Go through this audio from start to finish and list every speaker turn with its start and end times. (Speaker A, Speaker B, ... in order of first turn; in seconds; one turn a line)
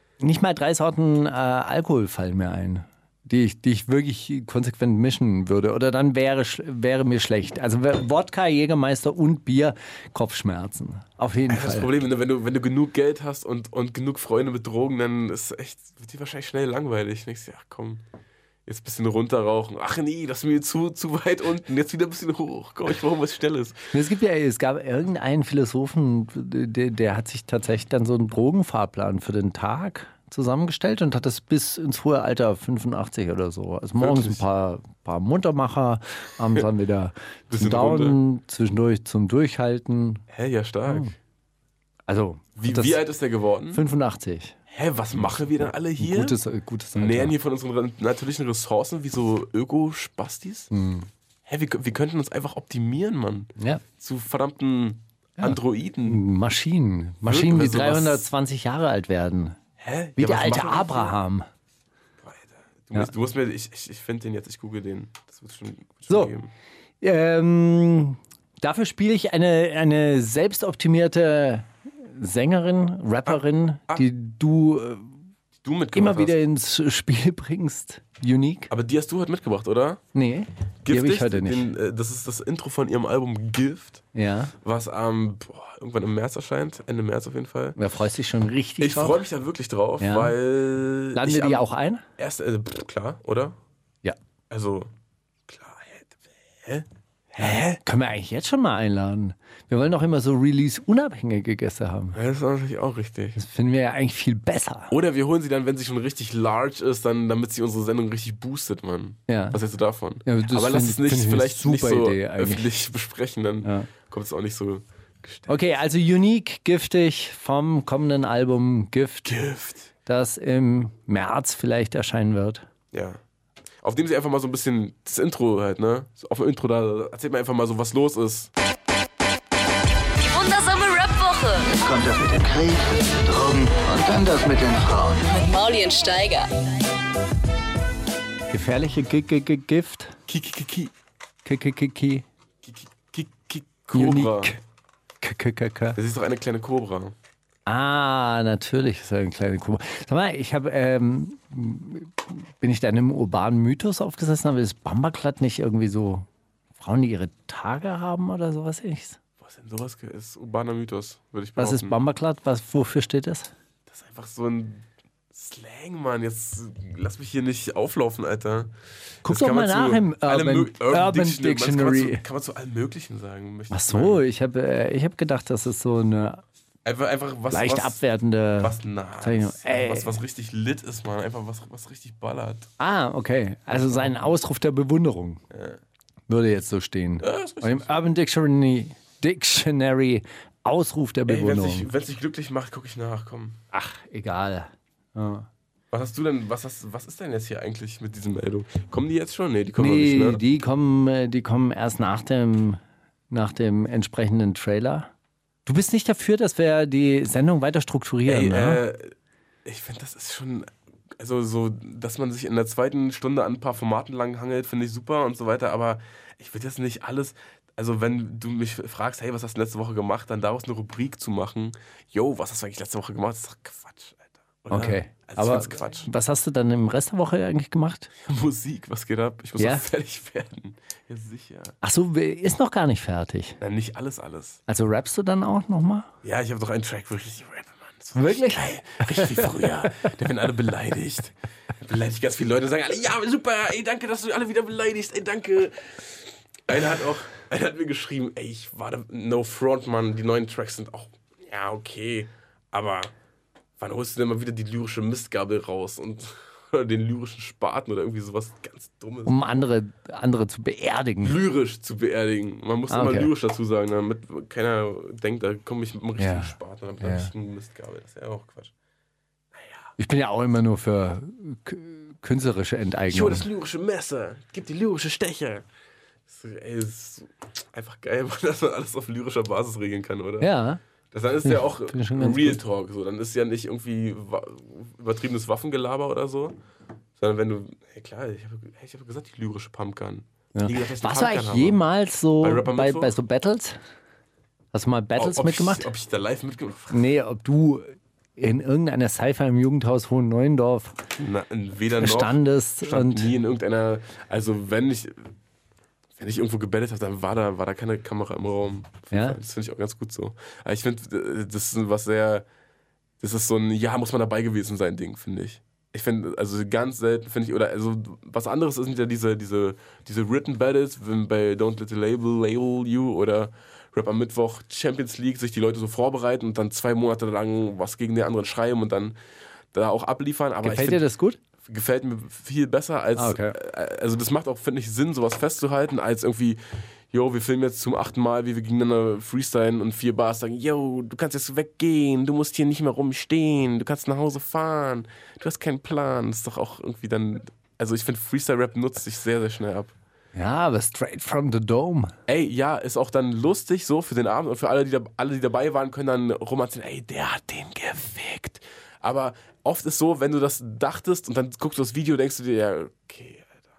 Speaker A: 0.2-11.9
Speaker B: 11.5-18.0
Speaker B: 18.7-23.8
Speaker A: 23.9-40.2
Speaker B: 34.0-34.4
Speaker B: 37.5-38.2
Speaker B: 40.3-41.2
Speaker A: 42.1-43.0
Speaker B: 42.6-43.8
Speaker A: 43.7-44.6
Speaker B: 44.7-46.4
Speaker A: 45.1-47.4
Speaker B: 47.0-50.7
Speaker A: 50.7-51.1
Speaker B: 51.5-56.2
Speaker A: 53.6-53.8
Speaker A: 55.4-59.6
Speaker B: 57.2-58.2
Speaker B: 59.8-61.1
Speaker A: 60.2-61.5
Speaker B: 62.2-66.5
Speaker A: 67.0-75.2
Speaker B: 73.3-74.1
Speaker B: 75.6-76.4
Speaker A: 75.9-78.7
Speaker B: 78.7-80.0
Speaker A: 80.1-81.7
Speaker B: 80.8-84.0
Speaker A: 84.2-84.5
Speaker B: 84.6-87.8
Speaker A: 87.8-89.2
Speaker B: 88.8-91.7
Speaker A: 90.0-90.4
Speaker A: 91.2-92.0
Speaker B: 92.2-93.6
Speaker B: 94.5-94.9
Speaker B: 95.5-97.8
Speaker A: 97.4-102.2
Speaker B: 102.1-103.4
Speaker A: 103.4-104.9
Speaker B: 104.9-115.6
Speaker A: 109.3-109.6
Speaker A: 110.2-112.7
Speaker A: 113.6-113.9
Speaker A: 115.5-119.4
Speaker B: 119.2-119.9
Speaker A: 120.0-122.7
Speaker B: 122.9-123.2
Speaker B: 123.8-128.5
Speaker C: 130.2-131.8
Speaker D: 131.8-135.3
Speaker C: 135.2-136.5
Speaker A: 138.5-140.2
Speaker B: 140.3-140.9
Speaker A: 141.4-142.3
Speaker B: 142.6-144.6
Speaker A: 143.9-144.6
Speaker A: 145.2-146.0
Speaker B: 146.0-147.2
Speaker A: 147.7-159.2
Speaker B: 159.4-162.0
Speaker A: 161.6-163.5
Speaker B: 163.9-168.7
Speaker A: 169.2-172.2
Speaker B: 169.2-174.2
Speaker A: 173.7-176.4
Speaker B: 176.8-178.0
Speaker A: 177.5-180.2
Speaker B: 178.6-182.7
Speaker A: 182.8-185.4
Speaker B: 185.5-185.8
Speaker A: 186.3-191.9
Speaker B: 187.2-188.0
Speaker B: 191.3-193.6
Speaker A: 193.7-195.5
Speaker B: 195.9-200.4
Speaker A: 199.8-202.8
Speaker A: 203.3-205.1
Speaker A: 205.7-208.8
Speaker B: 208.2-209.1
Speaker B: 209.7-226.1
Speaker A: 224.7-228.1
Speaker B: 228.2-231.8
Speaker A: 229.6-229.9
Speaker A: 231.8-233.6
Speaker B: 233.6-234.6
Speaker A: 234.7-236.1
Speaker B: 236.2-253.1
Speaker A: 238.2-240.1
Speaker B: 253.8-259.4
Speaker A: 259.2-261.4
Speaker B: 261.2-268.7
Speaker A: 262.9-263.3
Speaker A: 266.2-267.3
Speaker B: 269.5-269.9
Speaker A: 270.0-273.5
Speaker B: 273.1-275.6
Speaker B: 276.3-280.5
Speaker A: 280.4-280.8
Speaker B: 281.1-286.6
Speaker A: 281.5-282.6
Speaker B: 287.2-291.8
Speaker A: 290.5-293.8
Speaker B: 292.4-293.2
Speaker A: 294.7-295.9
Speaker B: 295.2-297.1
Speaker A: 296.9-301.0
Speaker B: 301.2-305.3
Speaker A: 302.0-303.3
Speaker B: 306.2-312.5
Speaker A: 309.1-309.4
Speaker B: 313.2-329.2
Speaker B: 329.7-331.0
Speaker A: 330.6-331.4
Speaker B: 331.6-336.6
Speaker A: 333.1-333.6
Speaker B: 337.1-349.9
Speaker A: 350.4-352.1
Speaker B: 352.3-363.6